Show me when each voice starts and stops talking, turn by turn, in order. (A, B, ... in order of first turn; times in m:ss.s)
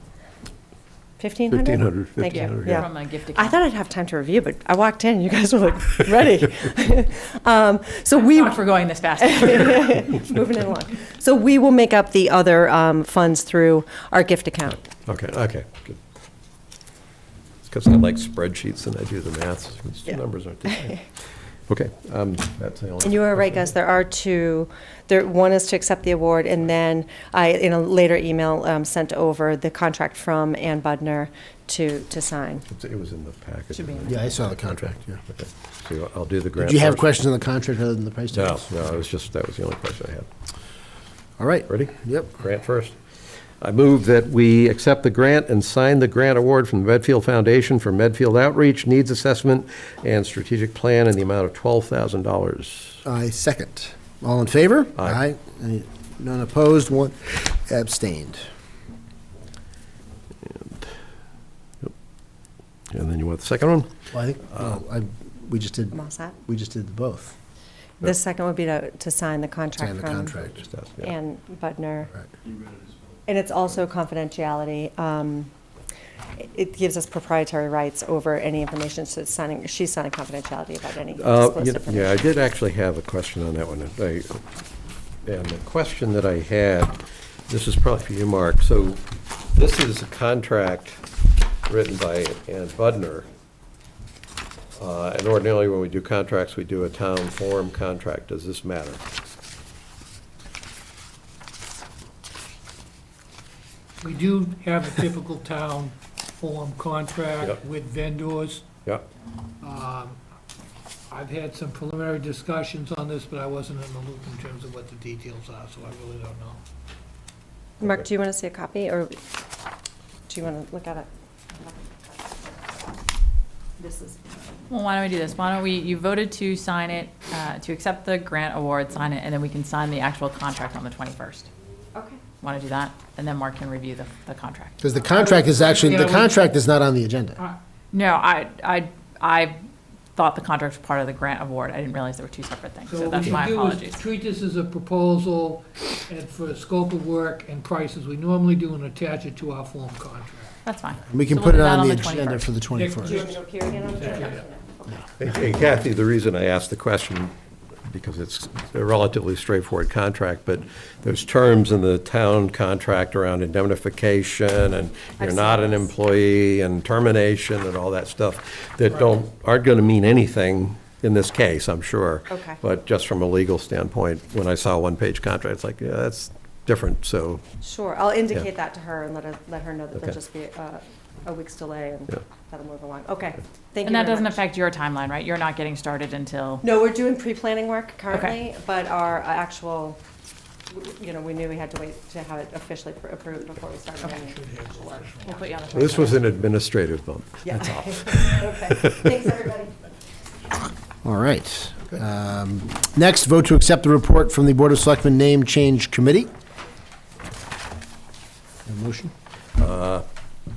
0:01.2-0:08.6 A
0:01.5-0:02.8 B
0:02.3-0:03.6 C
0:08.1-0:10.0 C
0:09.2-0:14.8 A
0:15.0-0:16.0 B
0:17.6-0:21.1 B
0:21.7-0:23.6 B
0:23.0-0:32.6 A
0:32.7-0:37.1 B
0:33.8-0:34.2 C
0:34.1-0:35.2 D
0:36.6-0:38.6 D
0:38.3-0:40.3 B
0:41.4-0:42.4 D
0:41.7-0:43.0 B
0:43.6-0:53.0 B
0:53.0-0:58.4 D
1:00.4-1:00.9 B
1:02.9-1:03.9 B
1:04.1-1:07.3 D
1:05.9-1:06.4 A
1:08.0-1:10.4 A
1:09.8-1:10.6 D
1:10.6-1:11.1 B
1:11.0-1:12.1 A
1:13.2-1:15.5 A
1:16.4-1:22.3 A
1:21.2-1:24.4 B
1:25.2-1:27.0 B
1:27.5-1:29.0 B
1:29.5-1:31.0 B
1:31.7-1:33.3 B
1:34.8-1:39.0 B
1:44.0-1:48.7 E
1:49.6-1:50.2 E
1:51.1-1:56.6 E
1:57.8-1:59.1 A
2:00.3-2:02.8 A
2:03.8-2:04.2 A
2:04.7-2:11.5 C
2:11.9-2:12.2 A
2:12.4-2:14.8 C
2:14.8-2:17.4 D
2:15.0-2:16.5 E
2:17.9-2:19.6 C
2:20.1-2:24.0 C
2:22.8-2:30.6 E
2:30.6-2:32.5 C
2:31.1-2:33.3 D
2:32.7-2:34.4 E
2:33.0-2:35.0 A
2:35.2-2:37.3 B
2:37.9-2:57.4 B
2:45.2-2:45.9 A
2:52.3-2:52.6 A
2:57.6-3:04.4 A
3:03.8-3:06.6 C
3:06.6-3:10.0 A
3:10.7-3:15.4 A
3:14.0-3:15.7 E
3:15.2-3:16.3 C
3:15.7-3:19.1 B
3:17.4-3:19.8 A
3:21.0-3:26.3 D
3:28.6-3:29.1 D
3:29.6-3:30.0 B